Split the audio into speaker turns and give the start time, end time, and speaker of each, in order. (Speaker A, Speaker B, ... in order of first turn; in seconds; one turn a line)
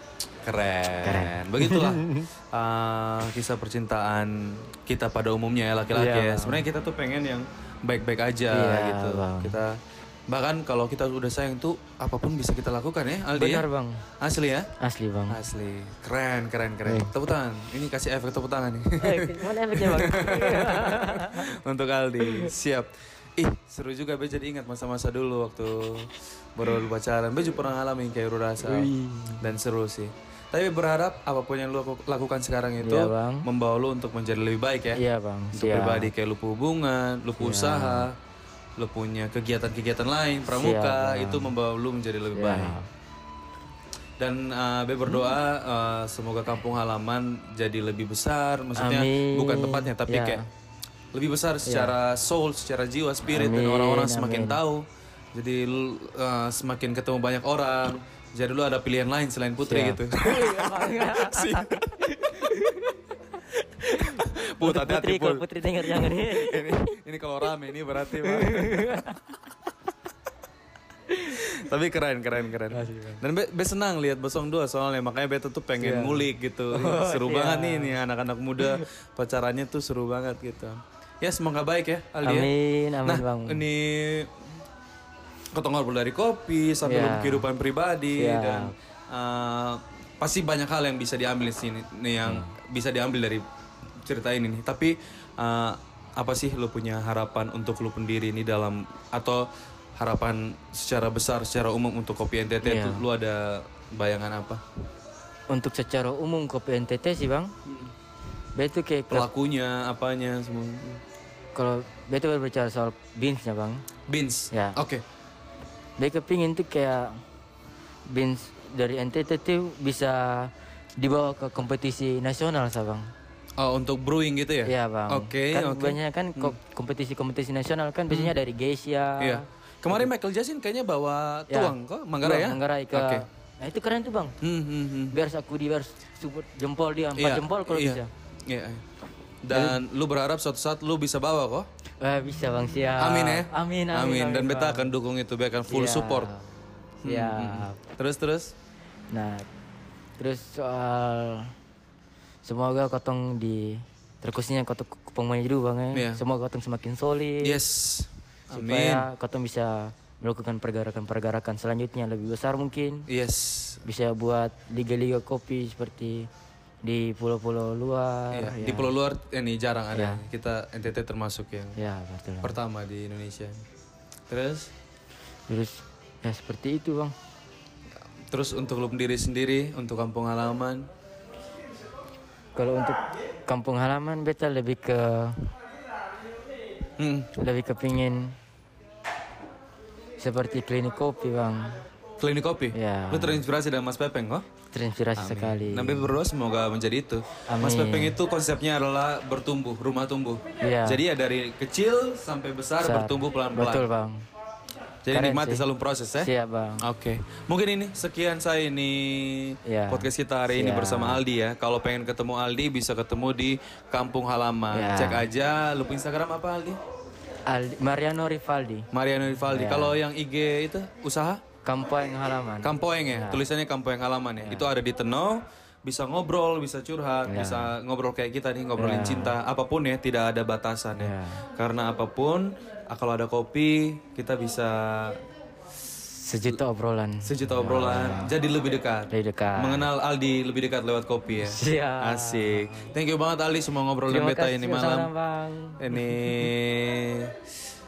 Speaker A: 0.4-13.7
Speaker B: 1.0-2.3
Speaker B: 5.9-6.7
Speaker B: 8.5-9.6
Speaker B: 13.3-14.1
Speaker A: 14.2-14.7
Speaker B: 14.8-15.4
Speaker A: 15.3-35.0
Speaker B: 16.9-17.1
Speaker B: 19.0-21.5
Speaker B: 22.2-22.5
Speaker B: 28.6-29.5
Speaker B: 32.8-33.5
Speaker B: 34.9-36.1
Speaker A: 35.5-38.1
Speaker B: 37.4-38.1
Speaker A: 38.8-42.8
Speaker B: 40.5-41.5
Speaker B: 42.3-42.9
Speaker A: 44.2-50.4
Speaker B: 45.0-45.4
Speaker B: 48.8-50.5
Speaker A: 51.1-54.8
Speaker B: 51.7-52.0
Speaker B: 53.3-54.6
Speaker A: 55.4-62.0
Speaker B: 59.6-67.0
Speaker A: 64.0-69.0
Speaker B: 68.0-69.2
Speaker B: 71.1-71.4
Speaker A: 71.2-82.5
Speaker B: 72.7-73.2
Speaker B: 75.8-78.0
Speaker B: 78.6-78.9
Speaker B: 82.2-83.6
Speaker A: 83.0-84.3
Speaker A: 85.5-93.4
Speaker B: 86.8-87.5
Speaker B: 88.2-88.7
Speaker B: 92.2-92.5
Speaker A: 94.0-99.5
Speaker A: 100.0-104.6
Speaker B: 102.6-103.0
Speaker B: 105.5-107.5
Speaker A: 107.7-107.9
Speaker B: 108.5-109.3
Speaker A: 109.1-111.0
Speaker B: 111.5-113.8
Speaker A: 114.1-115.0
Speaker B: 114.5-114.8
Speaker B: 116.0-117.2
Speaker B: 118.1-123.1
Speaker A: 123.6-126.6
Speaker B: 124.7-130.1
Speaker A: 129.2-133.2
Speaker B: 131.5-134.4
Speaker A: 134.4-135.2
Speaker B: 135.1-138.1
Speaker A: 137.2-138.8
Speaker A: 139.4-141.7
Speaker B: 139.5-139.8
Speaker B: 142.0-144.9
Speaker A: 143.0-146.3
Speaker B: 145.7-146.5
Speaker B: 147.0-147.8
Speaker A: 147.0-148.6
Speaker B: 149.1-149.4
Speaker B: 150.2-151.6
Speaker B: 152.4-157.6
Speaker A: 155.9-156.2
Speaker A: 157.4-159.1
Speaker B: 158.5-163.1
Speaker A: 163.1-163.8
Speaker B: 163.8-166.3
Speaker B: 166.8-168.9
Speaker A: 168.3-171.8
Speaker B: 169.9-170.2
Speaker B: 171.8-172.6
Speaker A: 172.4-173.6
Speaker A: 174.3-174.7
Speaker B: 175.5-177.2
Speaker A: 178.3-180.9
Speaker B: 182.6-185.5
Speaker A: 187.0-187.3
Speaker B: 187.4-188.4
Speaker B: 190.2-191.8
Speaker A: 192.2-194.5
Speaker B: 192.7-193.4
Speaker B: 194.7-196.1
Speaker A: 195.2-203.8
Speaker B: 197.5-198.2
Speaker B: 200.6-201.0
Speaker B: 202.8-204.2
Speaker A: 205.1-216.8
Speaker B: 205.1-205.7
Speaker B: 206.2-206.8
Speaker B: 209.7-211.2
Speaker B: 214.7-215.3
Speaker B: 217.5-218.9
Speaker A: 218.9-221.4
Speaker B: 219.4-220.0
Speaker B: 221.6-223.5
Speaker A: 222.6-235.2
Speaker B: 227.3-227.8
Speaker B: 228.8-229.3
Speaker B: 231.0-231.4
Speaker B: 236.2-238.3
Speaker A: 237.2-245.1
Speaker B: 239.1-239.9
Speaker B: 241.4-242.9
Speaker B: 244.1-246.5
Speaker A: 245.8-247.3